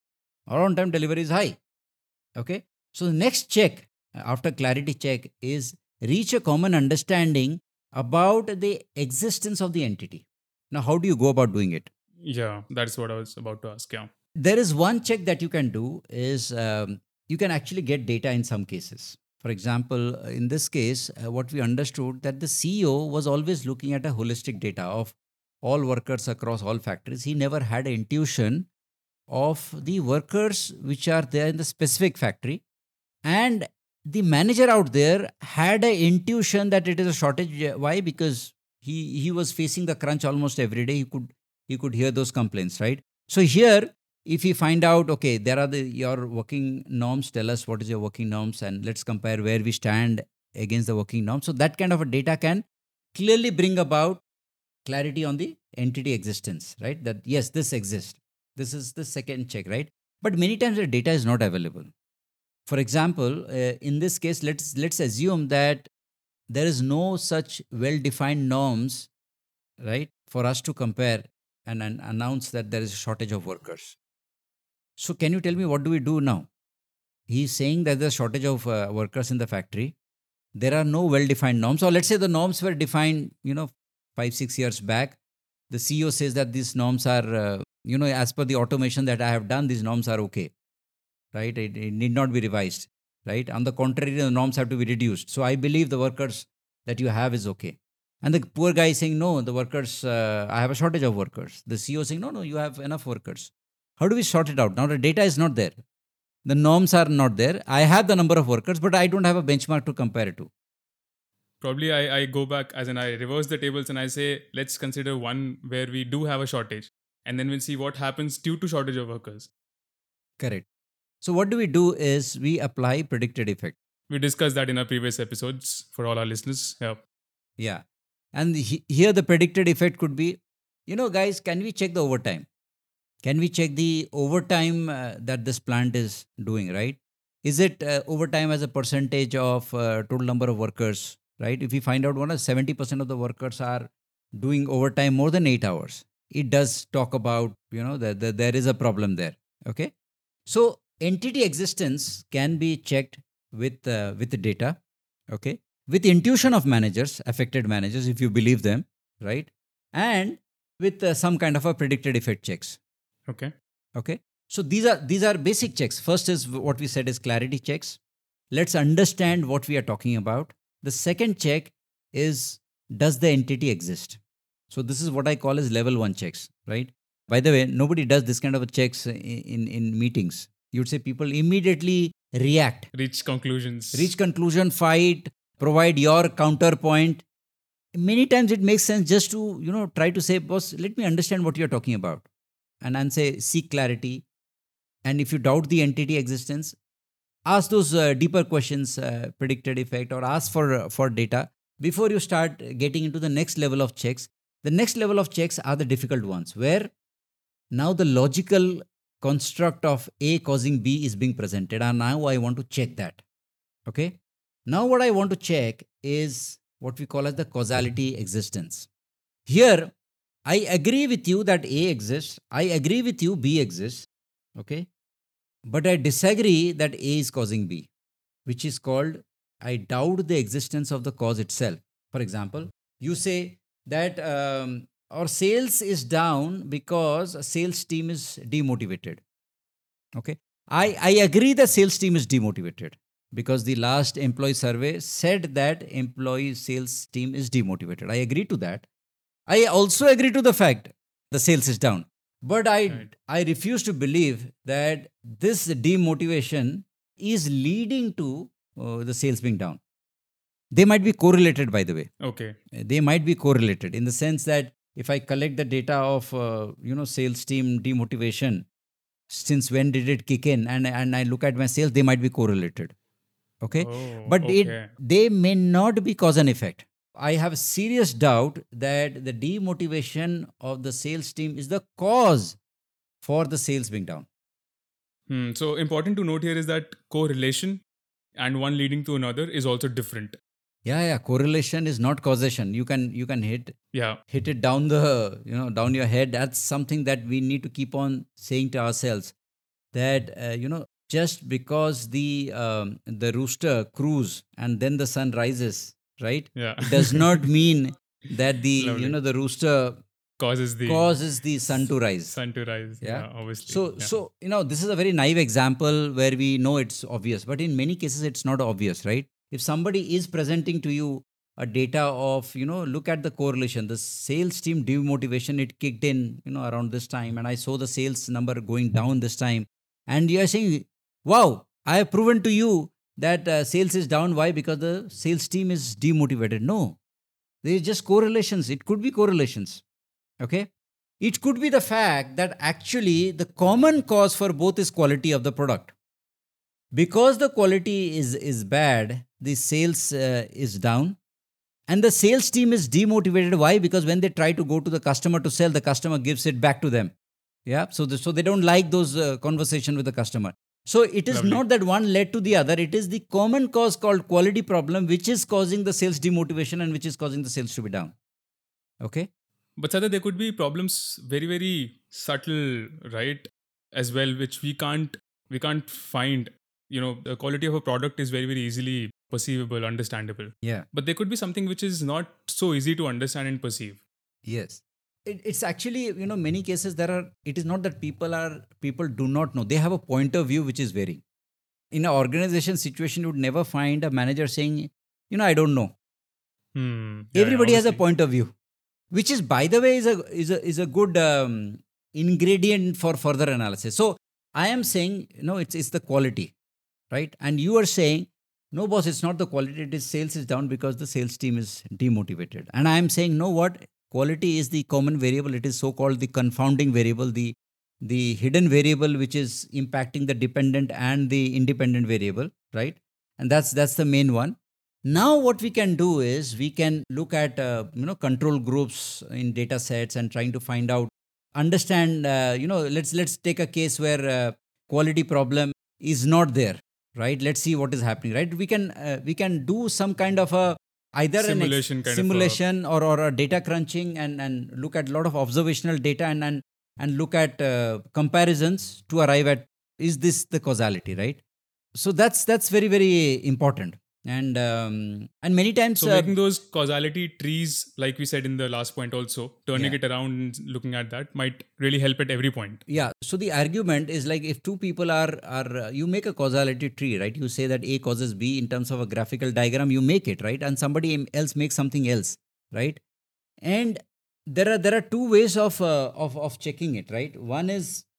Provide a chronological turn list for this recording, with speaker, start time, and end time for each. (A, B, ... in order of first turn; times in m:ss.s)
0:00.5-0:01.6 A
0:02.4-0:11.9 A
0:12.2-0:14.1 B
0:14.4-0:28.7 A
0:29.3-0:32.6 A
0:33.2-0:54.2 A
0:54.8-1:01.9 A
1:02.7-1:05.9 A
1:06.5-1:09.1 A
1:09.8-1:14.0 A
1:15.0-1:16.5 A
1:17.3-1:19.9 A
1:20.6-1:25.2 A
1:25.7-1:30.5 A
1:31.3-1:45.8 A
1:46.4-1:50.5 A
1:51.6-1:59.5 B
2:00.4-2:00.6 A
2:01.2-2:03.8 A
2:04.1-2:07.0 B
2:08.3-2:12.4 A
2:13.2-2:29.9 A
2:30.5-2:34.8 A
2:35.3-2:42.8 A
2:43.3-2:43.5 B
2:44.0-2:48.0 A
2:48.5-2:54.2 A
2:54.7-3:02.9 A
3:02.9-3:04.1 B
3:03.9-3:07.2 A
3:07.9-3:12.3 A
3:12.8-3:14.2 A
3:15.0-3:16.8 A
3:17.5-3:26.9 A
3:27.7-3:33.2 A
3:33.8-3:34.2 A
3:34.7-3:38.9 A
3:39.5-3:39.9 A
3:40.4-3:44.0 A
3:44.6-3:44.9 A
3:45.7-3:47.9 A
3:48.4-3:59.2 A
4:00.1-4:08.8 A
4:09.5-4:19.8 A
4:20.7-4:22.1 A
4:22.2-4:22.5 B
4:22.8-4:28.6 A
4:29.3-4:32.9 A
4:33.6-4:42.6 A
4:33.8-4:34.9 B
4:43.2-4:44.2 A
4:45.3-4:47.8 B
4:48.4-4:50.4 B
4:50.8-4:53.7 A
4:53.9-4:54.2 B
4:54.3-4:59.3 A
4:59.9-5:10.0 A
5:06.5-5:07.4 B
5:08.8-5:09.2 B
5:10.4-5:11.1 B
5:10.8-5:12.4 A
5:12.3-5:14.1 B
5:13.0-5:37.0 A
5:37.6-5:39.8 A
5:40.4-5:40.7 A
5:41.2-5:45.9 A
5:46.9-5:51.2 A
5:51.9-5:57.1 A
5:57.6-6:08.1 A
6:01.3-6:01.6 B
6:09.0-6:09.3 A
6:09.8-6:24.0 B
6:24.4-6:31.2 A
6:31.9-6:35.9 A
6:36.7-6:38.0 B
6:37.4-6:38.5 A
6:39.1-6:46.5 A
6:47.1-7:04.6 A
7:05.1-7:31.4 A
7:21.4-7:22.6 B
7:31.9-7:36.3 A
7:36.0-7:42.8 B
7:42.9-7:53.0 A
7:53.6-7:54.0 A
7:54.5-7:58.0 A